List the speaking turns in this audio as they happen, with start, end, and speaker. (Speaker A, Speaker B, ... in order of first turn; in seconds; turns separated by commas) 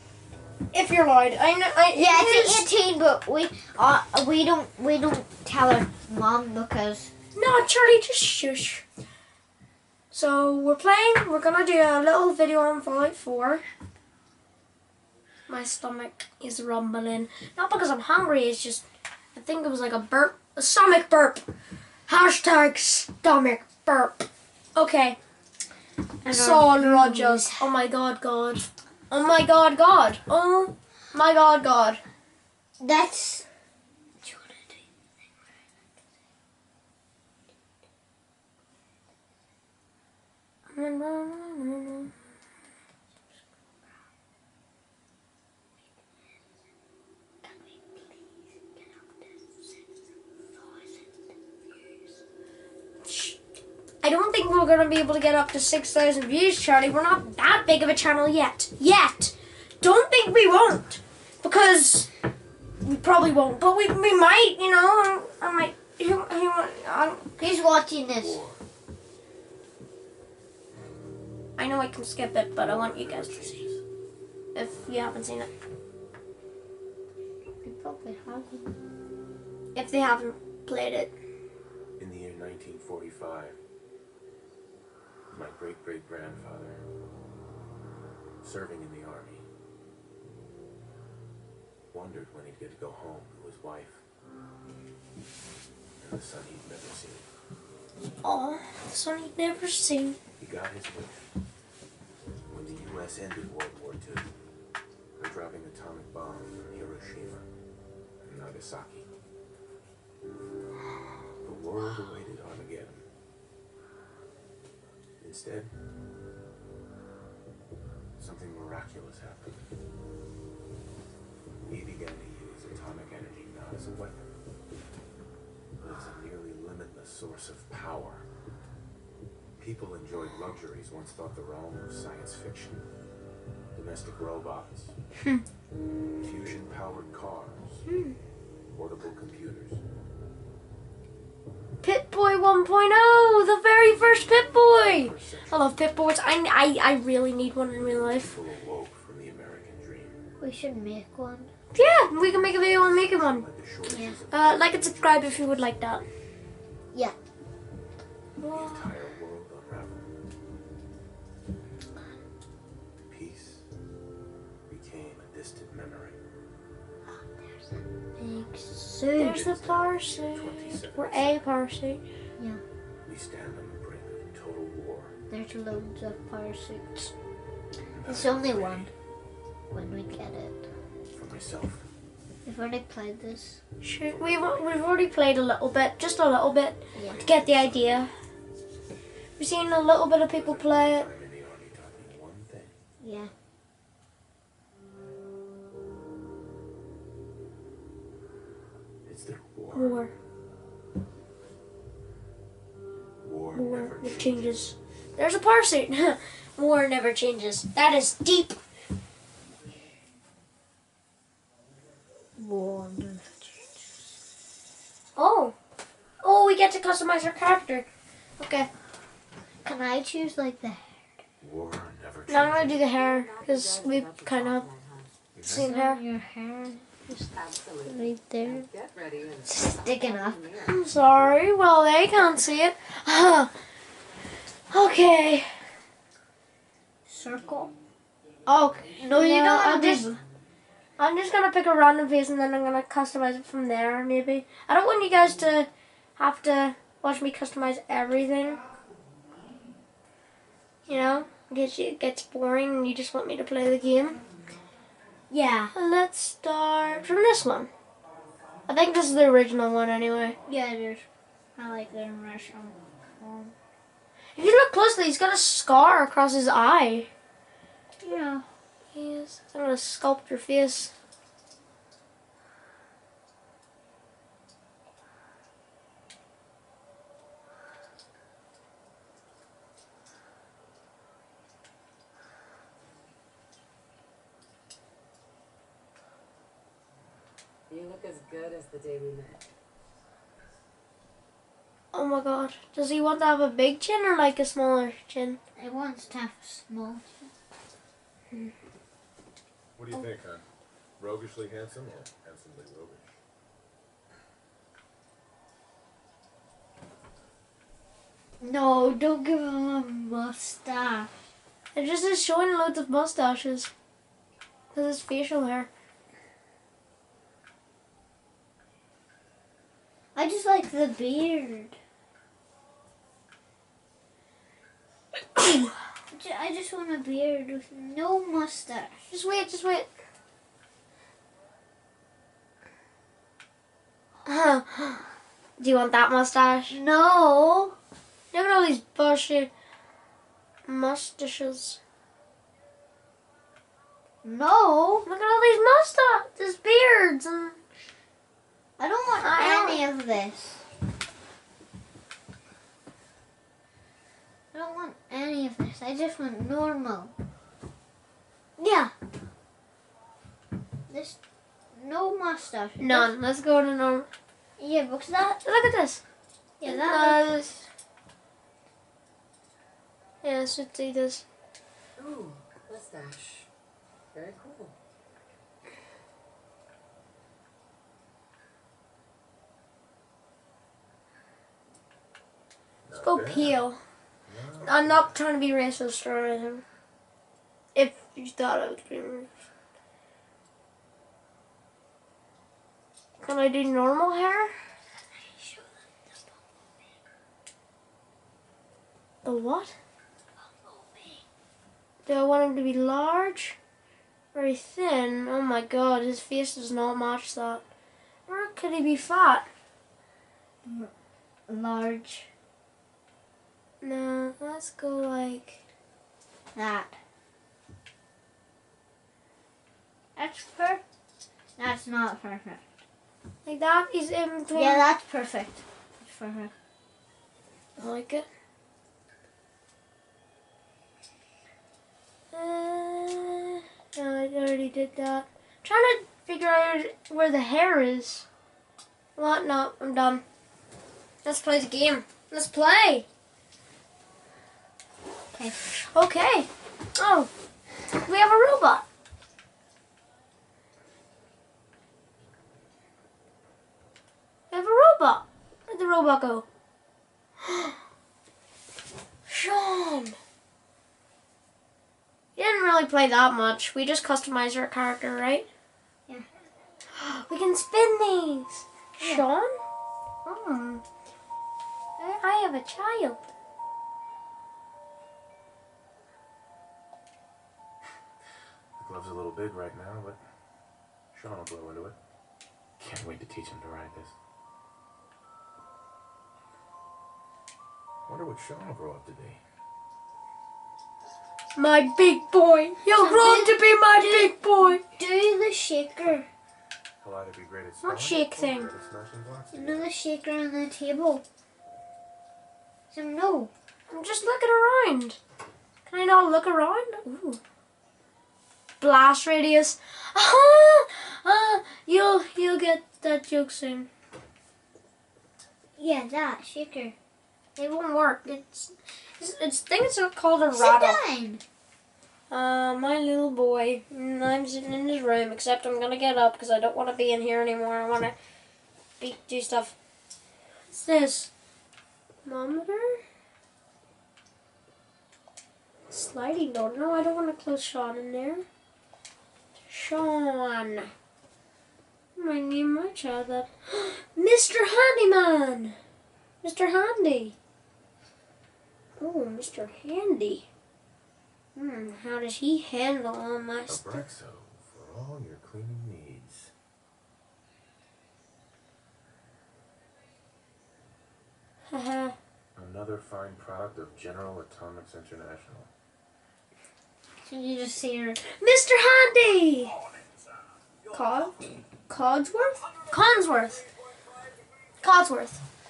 Speaker A: 0.7-2.7, Speaker B: 1.9-7.1, Speaker A: 7.3-8.8, Speaker A: 10.1-13.6, Speaker A: 15.5-21.4, Speaker A: 22.1-25.2, Speaker B: 26.2-27.7, Speaker A: 26.3-32.0, Speaker B: 32.8-33.5, Speaker B: 34.2-34.8, Speaker A: 40.7-42.1, Speaker A: 53.0-53.4, Speaker A: 54.0-62.1, Speaker A: 62.8-67.4, Speaker B: 67.4-68.4, Speaker C: 68.2-68.6, Speaker A: 71.6-73.6, Speaker C: 72.6-73.8, Speaker A: 74.5-75.5, Speaker B: 77.6-78.8, Speaker A: 79.7-81.1, Speaker C: 82.0-83.6, Speaker C: 85.3-86.8, Speaker C: 88.4-89.5, Speaker C: 91.9-94.0, Speaker C: 96.0-97.3, Speaker A: 98.2-100.2, Speaker C: 100.4-101.2, Speaker C: 102.5-104.3, Speaker C: 105.2-107.5, Speaker C: 108.2-109.1, Speaker C: 111.4-113.1, Speaker C: 115.2-115.7, Speaker C: 118.2-119.7, Speaker C: 121.6-124.2, Speaker C: 125.8-128.2, Speaker C: 129.6-132.9, Speaker C: 133.7-134.9, Speaker C: 136.2-137.8, Speaker C: 138.7-139.8, Speaker A: 141.8-148.3, Speaker C: 144.7-145.8, Speaker C: 148.2-150.2, Speaker B: 150.4-151.5, Speaker A: 151.7-153.5, Speaker C: 151.8-156.0, Speaker B: 153.8-154.2, Speaker A: 154.3-156.0, Speaker A: 158.4-158.9, Speaker C: 158.4-160.1, Speaker C: 163.0-163.7, Speaker C: 164.7-166.2, Speaker B: 167.1-169.3, Speaker A: 169.2-172.0, Speaker C: 169.2-171.4, Speaker B: 172.4-172.6, Speaker C: 173.0-175.2, Speaker B: 175.3-177.1, Speaker C: 177.8-178.9, Speaker B: 178.1-178.9, Speaker B: 179.7-180.7, Speaker C: 181.1-181.8, Speaker B: 182.4-183.6, Speaker A: 183.8-188.1, Speaker C: 184.1-184.8, Speaker B: 186.9-187.2, Speaker C: 187.0-188.1, Speaker A: 189.4-191.1, Speaker C: 190.0-192.8, Speaker B: 193.0-193.3, Speaker C: 199.0-200.1, Speaker A: 199.7-200.1, Speaker C: 203.2-204.7, Speaker A: 203.5-208.6, Speaker B: 212.4-213.8, Speaker A: 215.2-215.6, Speaker A: 216.2-218.7, Speaker B: 219.6-221.2, Speaker C: 221.4-222.8, Speaker A: 222.3-224.7, Speaker D: 222.6-225.1, Speaker C: 225.3-225.7, Speaker A: 225.4-226.0, Speaker B: 225.5-227.3, Speaker D: 227.3-230.8, Speaker B: 227.8-228.7, Speaker B: 229.4-230.4, Speaker A: 230.7-233.5, Speaker A: 234.7-235.5, Speaker B: 237.1-237.7, Speaker A: 238.5-240.1, Speaker B: 238.9-240.2, Speaker A: 241.0-248.6, Speaker A: 250.9-254.2, Speaker B: 255.3-255.7, Speaker A: 255.7-257.7, Speaker A: 258.7-260.4, Speaker B: 260.4-261.1, Speaker B: 261.6-263.5, Speaker A: 264.4-267.1, Speaker B: 268.0-268.4, Speaker A: 268.9-270.9, Speaker D: 287.7-289.4, Speaker A: 291.9-295.4, Speaker B: 295.6-297.3, Speaker C: 299.8-300.4, Speaker C: 301.0-303.1, Speaker B: 308.4-311.2, Speaker A: 311.8-313.7, Speaker A: 314.7-315.7, Speaker B: 320.1-321.8, Speaker A: 325.4-325.7, Speaker B: 326.1-329.0, Speaker A: 329.1-329.9, Speaker A: 334.2-335.0, Speaker A: 335.6-336.8, Speaker B: 336.7-337.8, Speaker A: 338.3-339.5, Speaker A: 340.7-341.8, Speaker B: 344.2-345.1, Speaker A: 345.1-347.6, Speaker B: 348.8-350.6, Speaker A: 349.2-349.8, Speaker B: 354.5-357.1, Speaker B: 358.6-358.9, Speaker B: 360.9-361.2, Speaker B: 361.7-363.1, Speaker A: 362.8-364.1, Speaker B: 364.6-365.4, Speaker A: 365.4-366.0, Speaker B: 366.6-367.3, Speaker A: 366.6-367.6, Speaker A: 370.2-371.2, Speaker D: 371.9-373.5, Speaker D: 374.1-374.8, Speaker C: 382.8-383.6, Speaker A: 383.0-383.8, Speaker C: 384.3-385.1, Speaker A: 384.6-386.6, Speaker A: 387.8-389.3, Speaker A: 393.2-394.5, Speaker B: 395.1-396.2, Speaker A: 399.2-399.8, Speaker B: 400.5-401.2, Speaker A: 402.1-403.6, Speaker A: 404.3-407.6, Speaker A: 408.3-409.5, Speaker B: 410.6-410.9, Speaker B: 411.5-412.3, Speaker A: 413.8-415.6, Speaker B: 416.6-417.0, Speaker B: 420.1-420.8, Speaker B: 421.6-422.6, Speaker A: 423.4-424.8, Speaker B: 424.6-426.5, Speaker A: 427.8-428.2, Speaker A: 432.3-438.2, Speaker A: 439.1-440.2, Speaker A: 441.2-443.1, Speaker B: 445.3-445.6, Speaker A: 445.8-447.3, Speaker A: 448.1-448.8, Speaker A: 454.5-456.4, Speaker A: 457.4-457.8, Speaker A: 459.3-460.1, Speaker A: 462.4-465.5, Speaker A: 466.9-469.6, Speaker B: 469.0-469.2, Speaker A: 470.2-470.8, Speaker A: 472.2-473.3, Speaker C: 478.8-480.2, Speaker C: 481.1-482.0, Speaker C: 482.8-484.1, Speaker C: 488.1-489.4, Speaker A: 491.6-494.8, Speaker B: 492.9-496.3, Speaker C: 497.0-499.9, Speaker A: 497.8-498.7, Speaker B: 499.5-501.2, Speaker B: 502.9-503.5, Speaker A: 503.9-505.2, Speaker A: 505.9-507.4, Speaker A: 508.8-513.9, Speaker B: 515.8-517.0, Speaker A: 517.6-521.0, Speaker B: 520.5-521.4, Speaker A: 522.3-528.1, Speaker A: 529.0-529.8, Speaker A: 530.7-531.3, Speaker A: 532.2-533.0, Speaker A: 535.9-538.5, Speaker A: 539.7-540.9, Speaker A: 542.2-545.8, Speaker A: 546.4-547.4, Speaker A: 549.0-550.5, Speaker A: 551.5-554.1, Speaker C: 553.7-556.5, Speaker A: 561.7-562.2, Speaker C: 562.5-565.7, Speaker B: 567.2-568.2, Speaker A: 568.2-569.8, Speaker A: 570.9-571.4, Speaker A: 571.9-573.6, Speaker A: 574.8-575.4